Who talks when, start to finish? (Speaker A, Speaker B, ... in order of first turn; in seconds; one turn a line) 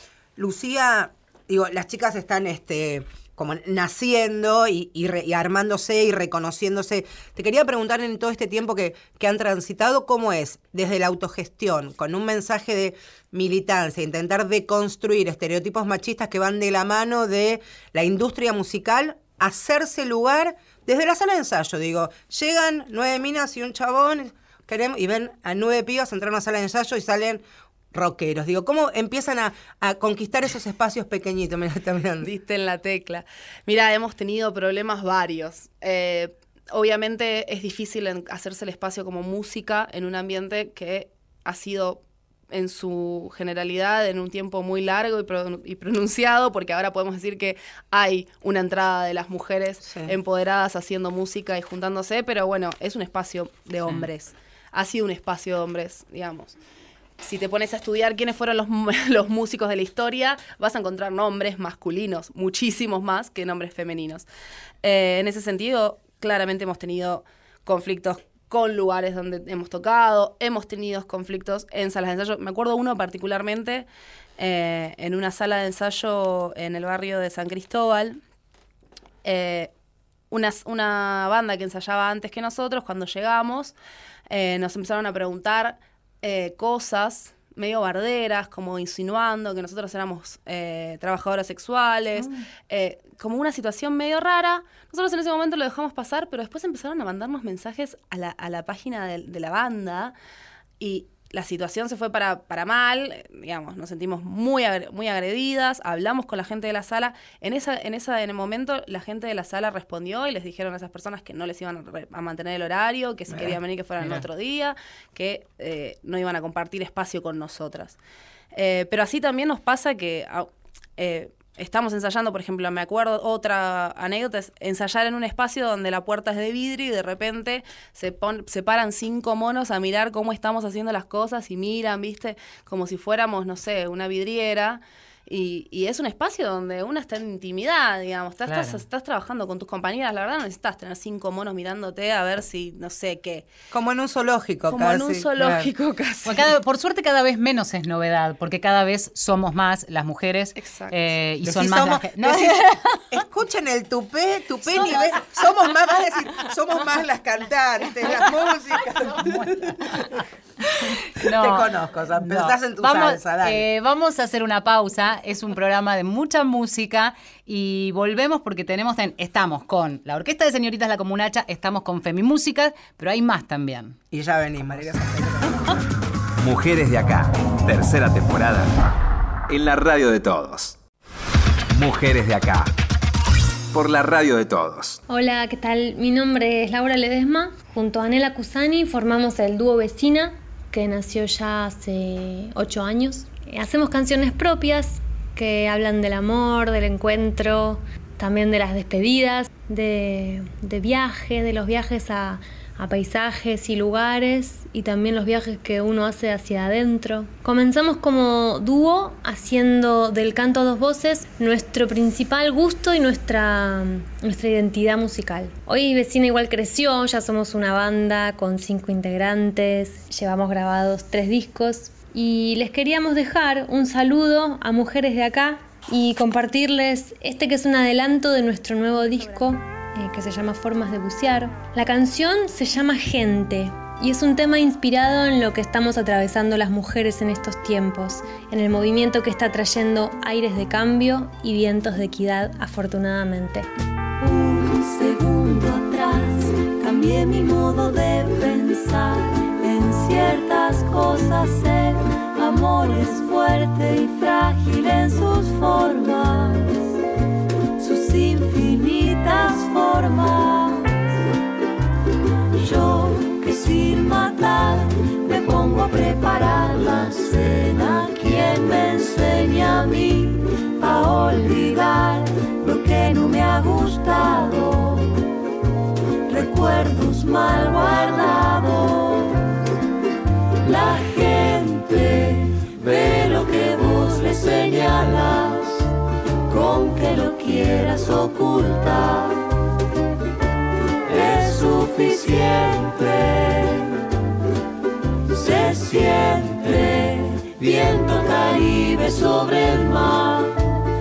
Speaker A: 0.4-32.3
Speaker B: 32.2-56.6
Speaker A: 49.8-50.1
Speaker B: 57.2-64.3
Speaker B: 64.8-73.9
Speaker B: 74.4-78.2
Speaker B: 79.2-79.7
Speaker B: 80.3-83.8
Speaker B: 84.3-100.2
Speaker B: 100.8-118.0
Speaker B: 118.5-143.5
Speaker C: 138.5-138.8
Speaker A: 143.7-145.7
Speaker B: 144.7-146.5
Speaker C: 146.2-153.0
Speaker B: 150.6-151.0
Speaker A: 151.4-159.9
Speaker C: 159.3-159.6
Speaker C: 161.2-174.0
Speaker A: 161.3-163.6
Speaker A: 174.1-175.7
Speaker D: 176.4-178.7
Speaker D: 179.5-180.8
Speaker D: 181.7-182.7
Speaker D: 183.7-185.0
Speaker E: 185.1-243.7
Speaker F: 244.2-256.9
Speaker F: 257.8-261.1
Speaker F: 262.6-275.2
Speaker F: 276.3-279.5
Speaker F: 280.6-285.9
Speaker F: 286.5-289.5
Speaker F: 291.0-294.0
Speaker F: 295.3-300.7